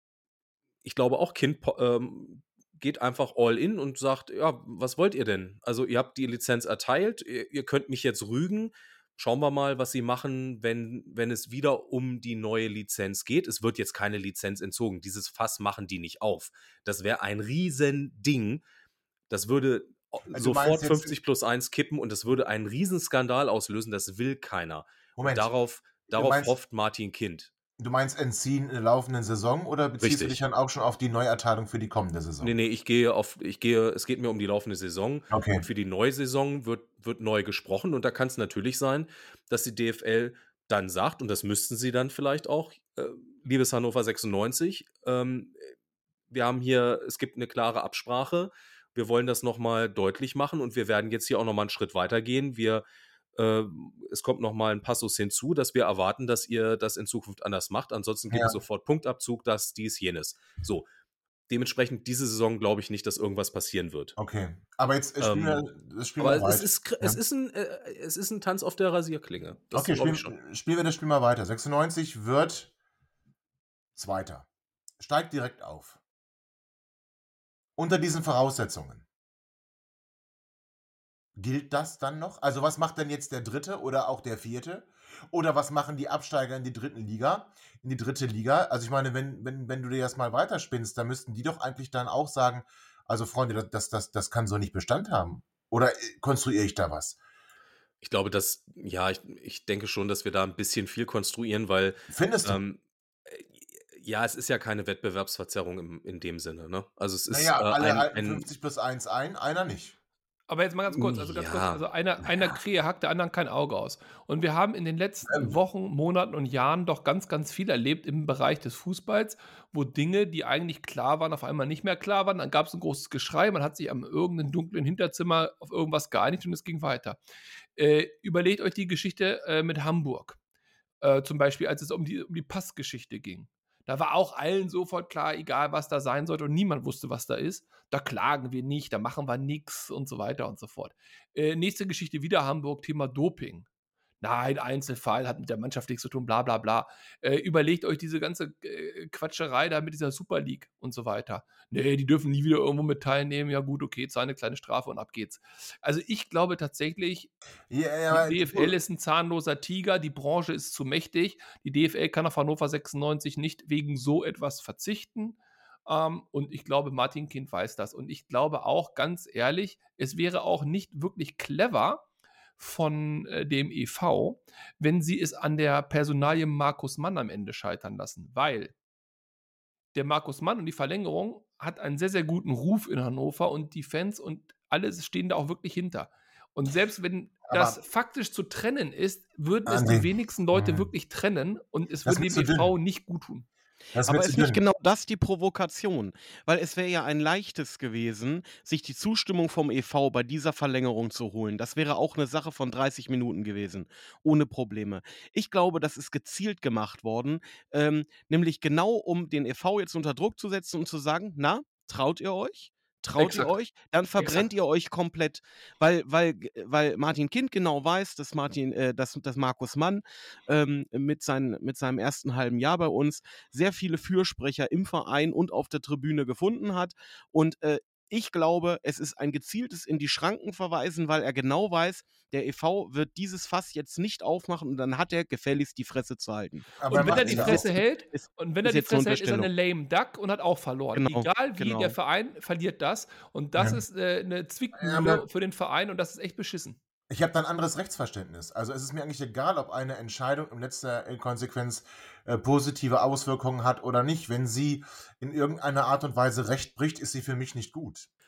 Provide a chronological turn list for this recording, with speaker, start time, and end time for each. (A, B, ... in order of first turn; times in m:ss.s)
0:00.8-0:18.6 A
0:19.3-0:27.5 A
0:20.3-0:21.1 B
0:25.2-0:25.5 B
0:26.1-0:26.5 B
0:27.8-0:32.5 B
0:30.0-0:30.4 A
0:32.4-0:45.7 A
0:35.3-0:35.6 B
0:46.3-1:00.9 A
0:58.3-0:58.6 B
1:01.5-1:04.2 A
1:04.2-1:07.2 B
1:05.2-1:05.6 A
1:06.2-1:10.3 A
1:09.7-1:12.7 B
1:14.0-1:14.5 B
1:15.0-1:16.0 B
1:17.8-1:19.0 B
1:21.4-1:37.2 B
1:38.0-1:48.5 A
1:42.1-1:42.6 B
1:47.3-1:50.0 B
1:50.5-2:07.2 C
1:50.9-1:52.6 A
1:55.3-1:55.6 B
2:07.8-2:10.4 C
2:11.0-2:23.6 C
2:24.2-2:37.3 C
2:37.7-2:38.8 B
2:38.1-2:52.0 C
2:52.6-2:58.7 C
2:59.9-3:13.5 C
3:07.5-3:07.8 B
3:09.6-3:10.9 B
3:12.0-3:12.7 B
3:13.9-3:14.6 B
3:14.0-3:59.5 D
3:33.2-3:33.5 A
3:56.8-3:57.7 B
3:56.9-4:06.8 C
4:00.9-4:02.0 D
4:03.6-4:03.8 B
4:04.8-4:05.2 B
4:07.1-4:18.1 B